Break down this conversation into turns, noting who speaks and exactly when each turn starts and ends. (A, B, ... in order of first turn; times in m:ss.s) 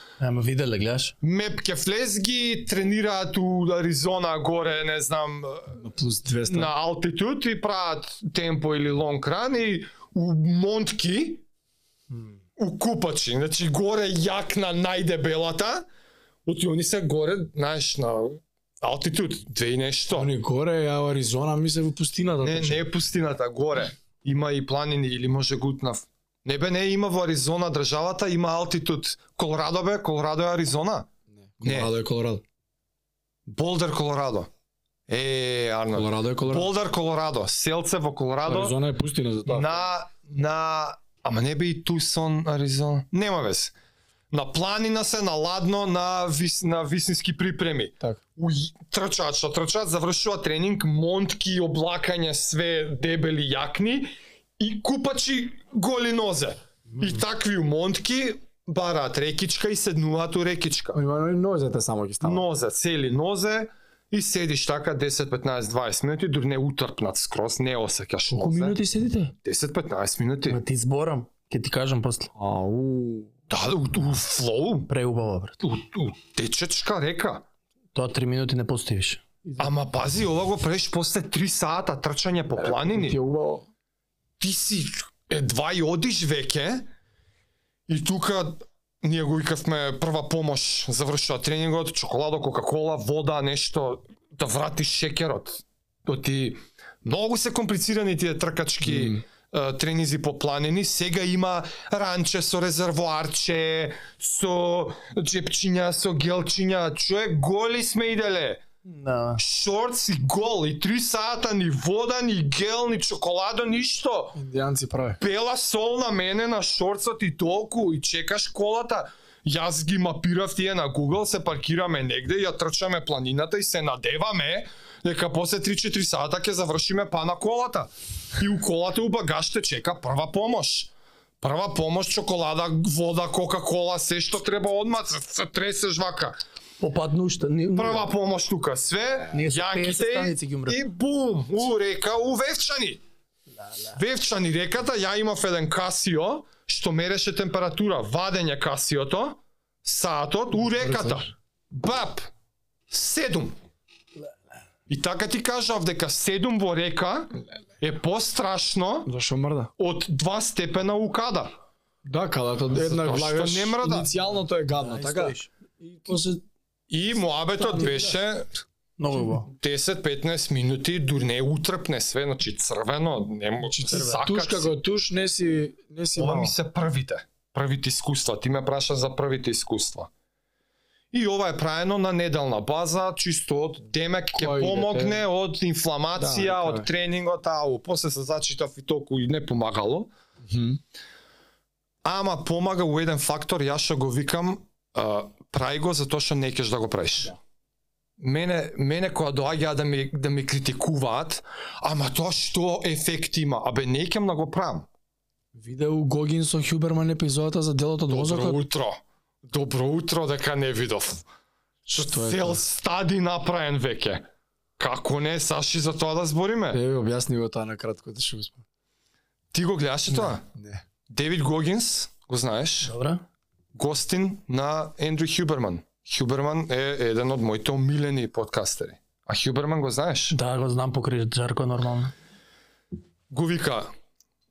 0:00.2-0:01.2 A
0:01.2-0:05.8 B
0:05.8-0:06.7 C
0:06.5-0:11.4 B
0:12.6-0:15.9 B
0:16.5-0:20.3 B
0:20.1-0:22.9 C
0:22.4-0:31.1 B
0:31.3-0:32.4 C
0:31.6-0:31.9 B
0:33.5-0:34.5 B
0:35.1-0:38.8 B
0:35.9-0:36.7 C
0:38.4-0:39.9 C
0:39.5-0:43.7 B
0:44.3-1:01.0 B
1:00.9-1:02.5 C
1:02.2-1:08.8 B
1:08.3-1:09.3 A
1:09.4-1:10.6 B
1:10.5-1:12.3 A
1:12.4-1:13.3 C
1:13.5-1:14.9 B
1:14.9-1:15.6 A
1:15.6-1:17.4 B
1:17.9-1:19.7 A
1:19.6-1:23.2 B
1:22.6-1:23.7 C
1:24.4-1:26.9 B
1:27.9-1:48.6 B
1:38.8-1:39.2 C
1:48.8-1:49.4 A
1:49.4-1:54.4 B
1:54.4-1:55.2 C
1:55.2-2:16.4 B
2:16.8-2:18.1 A
2:17.8-2:23.0 B
2:19.3-2:20.8 A
2:24.0-2:32.3 B
2:30.6-2:31.3 C
2:32.9-2:33.6 B
2:34.9-2:39.1 B
2:39.1-2:39.7 C
2:39.8-2:41.5 B
2:42.0-2:46.4 C
2:42.8-2:44.1 B
2:44.8-2:45.5 A
2:46.9-2:48.5 B
2:47.6-2:48.1 C
2:47.7-2:47.9 A
2:49.0-2:49.5 A
2:49.5-2:54.7 B
2:53.6-2:56.6 C
2:53.9-2:54.2 A
2:56.2-3:00.1 B
3:01.1-3:10.1 B
3:04.3-3:05.2 C
3:06.2-3:06.9 C
3:10.4-3:10.8 C
3:12.0-3:17.4 B
3:18.2-3:24.9 B
3:25.6-3:28.6 C
3:28.1-3:31.2 B
3:31.9-3:32.6 C
3:32.0-3:34.2 B
3:34.8-3:36.8 B
3:36.7-3:38.6 C
3:39.5-3:40.4 B
3:40.3-3:40.8 C
3:41.1-3:42.9 B
3:42.8-3:43.2 A
3:43.8-3:50.4 B
3:50.3-3:52.1 A
3:53.3-3:53.9 B